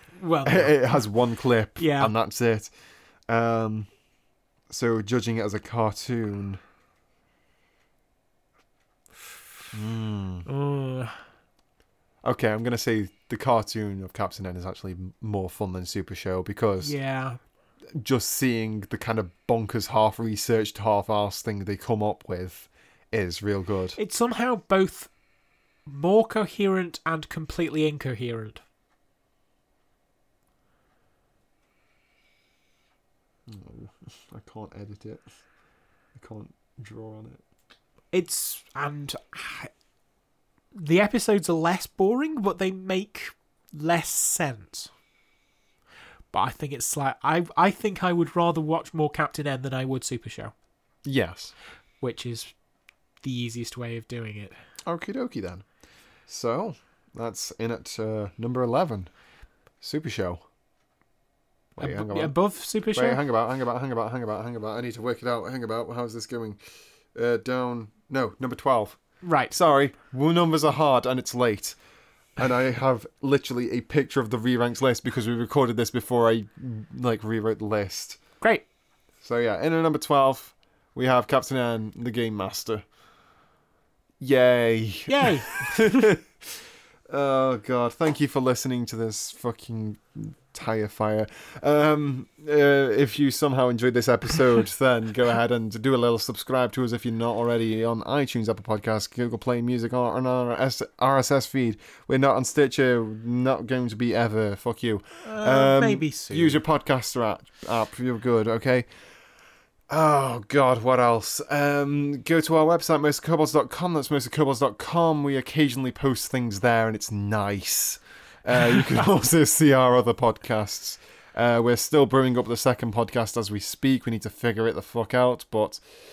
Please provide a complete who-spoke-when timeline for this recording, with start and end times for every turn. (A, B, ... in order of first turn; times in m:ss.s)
0:00.2-0:00.8 A
0:00.4-0:02.7 B
0:01.8-0:02.1 A
0:03.3-0:03.9 B
0:04.7-0:06.6 B
0:09.7-0:10.5 B
0:10.5-0:11.2 A
0:12.2-0:17.0 B
0:16.8-0:17.4 A
0:17.9-0:24.0 B
0:24.0-0:25.1 A
0:25.9-0:28.6 A
0:33.5-0:35.3 B
0:36.2-0:37.4 B
0:38.1-0:39.7 A
0:40.8-0:44.9 A
0:46.3-0:50.5 A
0:51.0-0:51.5 B
0:52.0-0:52.5 A
0:53.2-0:54.6 A
0:54.8-0:55.6 B
0:56.3-0:59.1 B
0:59.8-1:00.4 B
1:01.8-1:02.4 B
1:01.8-1:03.2 A
1:02.9-1:06.6 B
1:07.2-1:11.8 B
1:09.2-1:09.5 A
1:12.4-1:18.2 B
1:19.2-1:22.8 B
1:24.2-1:26.6 B
1:25.1-1:26.1 A
1:27.1-1:48.9 B
1:45.2-1:46.6 A
1:49.9-2:05.8 B